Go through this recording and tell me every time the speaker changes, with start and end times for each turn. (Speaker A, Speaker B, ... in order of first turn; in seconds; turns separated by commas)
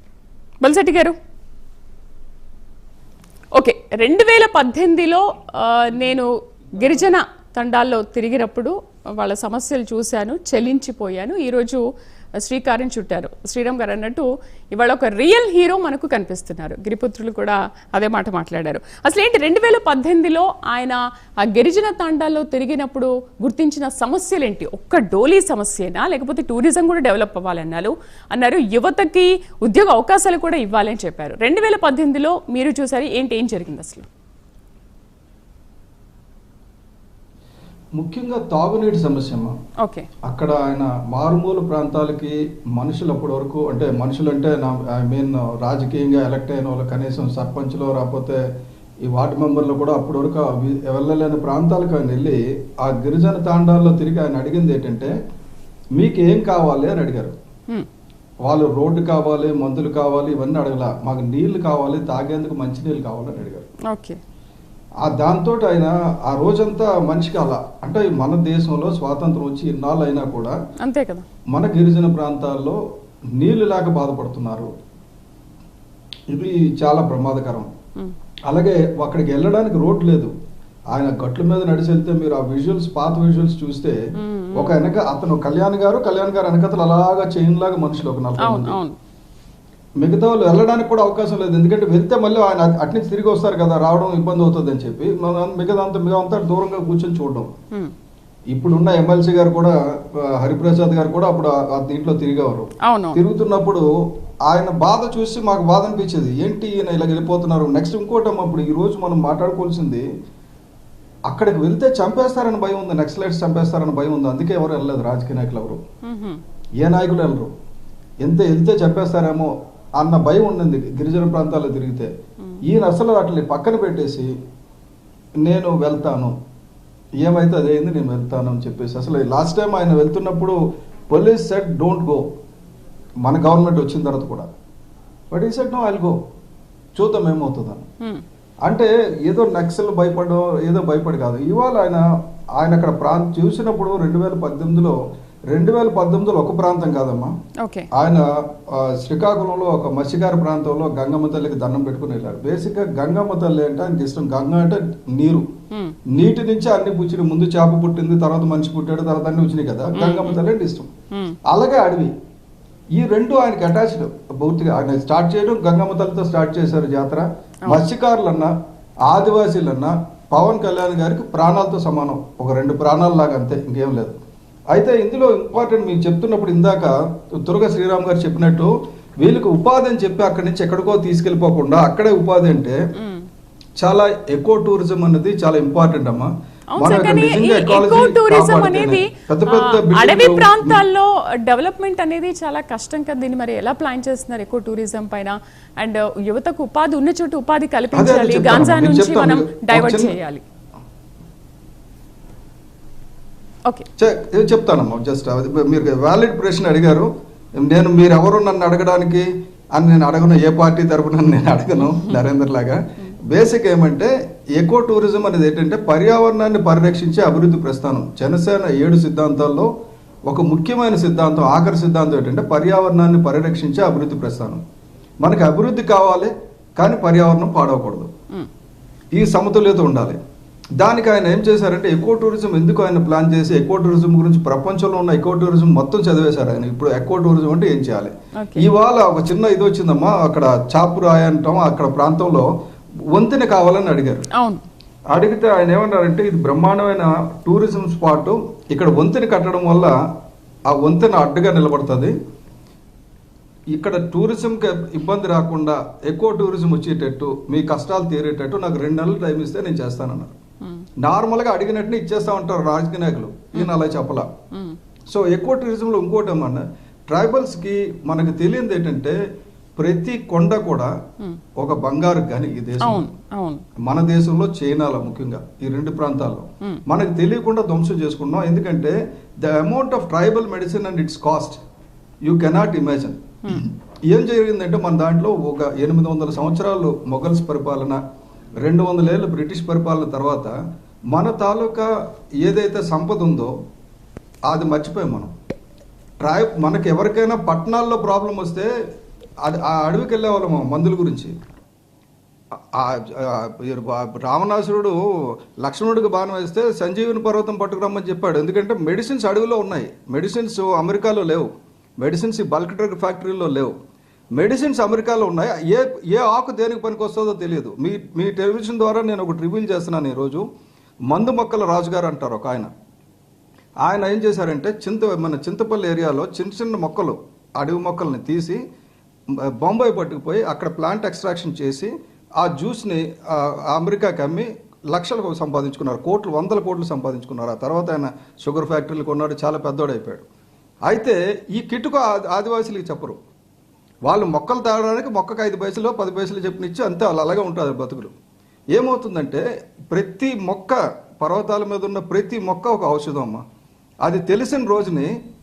Speaker A: 0.6-1.2, Speaker A: 3.5-11.8, Speaker A: 12.4-34.1, Speaker B: 38.0-39.5, Speaker A: 39.8-40.1, Speaker B: 40.2-48.4, Speaker B: 49.0-55.1, Speaker B: 56.0-57.4, Speaker B: 58.4-63.7, Speaker A: 63.9-64.2, Speaker B: 65.0-70.5, Speaker A: 70.8-71.2, Speaker B: 71.5-72.8, Speaker B: 73.4-74.7, Speaker B: 76.3-77.7, Speaker B: 78.5-80.3, Speaker B: 80.9-84.0, Speaker A: 84.2-84.9, Speaker B: 84.6-88.8, Speaker A: 88.4-89.0, Speaker B: 90.0-97.5, Speaker B: 98.5-103.9, Speaker A: 102.8-103.2, Speaker B: 104.5-110.0, Speaker B: 111.3-115.8, Speaker A: 116.0-116.4, Speaker B: 116.8-117.5, Speaker B: 118.2-122.1, Speaker B: 122.7-124.3, Speaker B: 125.4-126.3, Speaker B: 127.2-130.6, Speaker B: 131.1-132.2, Speaker B: 133.2-134.5, Speaker B: 135.3-136.2, Speaker B: 136.9-137.9, Speaker B: 138.6-142.0, Speaker B: 142.6-145.0, Speaker B: 145.5-147.3, Speaker A: 147.6-147.9, Speaker B: 147.9-155.5, Speaker B: 156.1-160.9, Speaker A: 160.0-160.4, Speaker A: 161.1-161.4, Speaker B: 161.5-162.1, Speaker B: 162.9-168.5, Speaker B: 169.1-174.2, Speaker B: 174.7-182.8, Speaker A: 183.0-183.3, Speaker B: 183.8-190.8, Speaker A: 186.7-200.4, Speaker B: 197.9-200.2, Speaker B: 204.0-207.1, Speaker B: 207.6-219.7, Speaker B: 220.3-224.6, Speaker B: 225.2-228.1, Speaker B: 229.1-230.2, Speaker B: 230.8-242.5, Speaker A: 238.4-238.7, Speaker B: 243.1-244.3, Speaker A: 244.3-244.6, Speaker B: 245.1-249.9, Speaker B: 250.7-252.1, Speaker B: 253.7-260.4, Speaker B: 261.0-264.3, Speaker A: 264.5-264.8, Speaker B: 265.1-269.2, Speaker B: 269.8-270.9, Speaker B: 271.6-273.1, Speaker A: 272.8-273.6, Speaker B: 273.8-281.6, Speaker B: 282.2-288.0, Speaker B: 288.6-290.5, Speaker B: 291.1-291.9, Speaker B: 292.4-293.5, Speaker B: 294.5-295.3, Speaker B: 296.2-298.7, Speaker B: 299.4-301.3, Speaker B: 302.7-311.5, Speaker B: 312.0-313.7, Speaker B: 314.4-320.4, Speaker B: 321.1-322.7, Speaker B: 323.8-328.6, Speaker B: 329.6-340.2, Speaker B: 340.9-343.2, Speaker B: 344.1-348.1, Speaker B: 348.7-353.4, Speaker B: 354.0-355.1